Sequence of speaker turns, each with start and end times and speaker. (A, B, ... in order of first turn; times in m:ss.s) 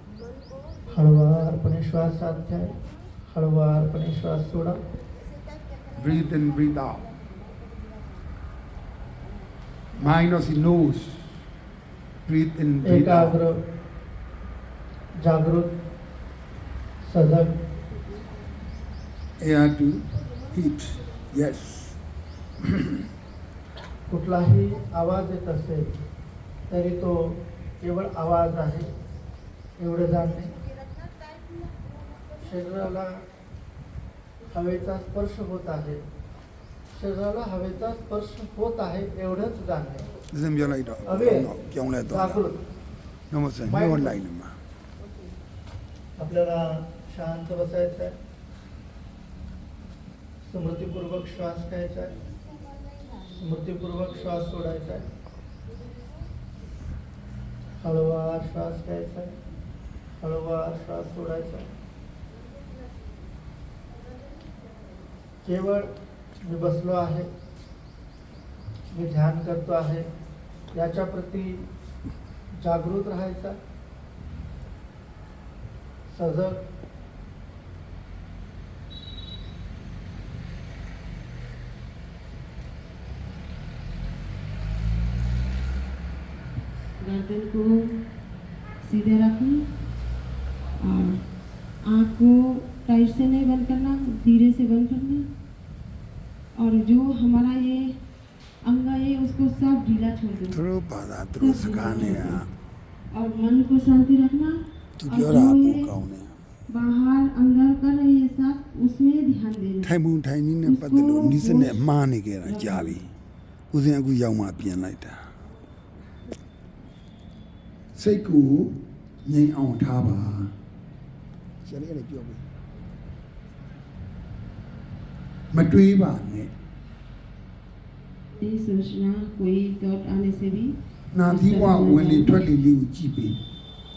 0:00.9-0:02.7 A
0:03.3-0:04.8 A
0:05.6-0:05.9 B
0:06.0-0:07.1 C
0:10.0-0:11.4 C
0:12.2-0:13.4 C
0:12.8-0:13.6 A
0:15.2-0:15.7 A
0:17.1-0:17.5 A
0:19.4-0:22.0 C
0:22.6-0:23.0 C
0:24.1-0:25.9 A
0:26.7-0:28.9 A
0:29.8-0:30.5 A
0:30.6-0:31.9 B
0:32.4-0:33.2 A
0:34.5-0:36.0 A
0:36.9-0:40.1 A
0:40.3-0:42.4 C
0:41.1-0:41.5 A
0:42.1-0:42.6 A
0:43.3-0:44.5 C
0:43.7-0:44.1 A
0:46.2-0:48.2 A
0:50.4-0:52.2 A
0:53.3-0:55.1 A
0:57.8-0:59.3 A
1:00.2-1:01.7 A
1:05.4-1:05.9 A
1:06.4-1:07.3 A
1:08.9-1:10.1 A
1:10.7-1:11.6 A
1:12.6-1:13.6 A
1:16.1-1:16.6 A
1:27.0-1:27.8 B
1:28.8-1:29.7 B
1:30.8-1:31.2 B
1:31.9-1:35.3 B
1:36.6-1:38.0 B
1:38.6-1:40.6 B
1:40.5-1:42.5 C
1:41.4-1:42.4 B
1:43.1-1:45.9 B
1:45.0-1:46.4 C
1:46.7-1:49.9 B
1:49.8-1:53.1 C
1:50.6-1:51.8 B
1:52.4-1:53.0 B
1:53.7-1:55.2 C
1:57.9-2:00.5 C
2:01.6-2:02.4 C
2:05.5-2:06.5 C
2:08.4-2:12.5 B
2:11.1-2:13.4 C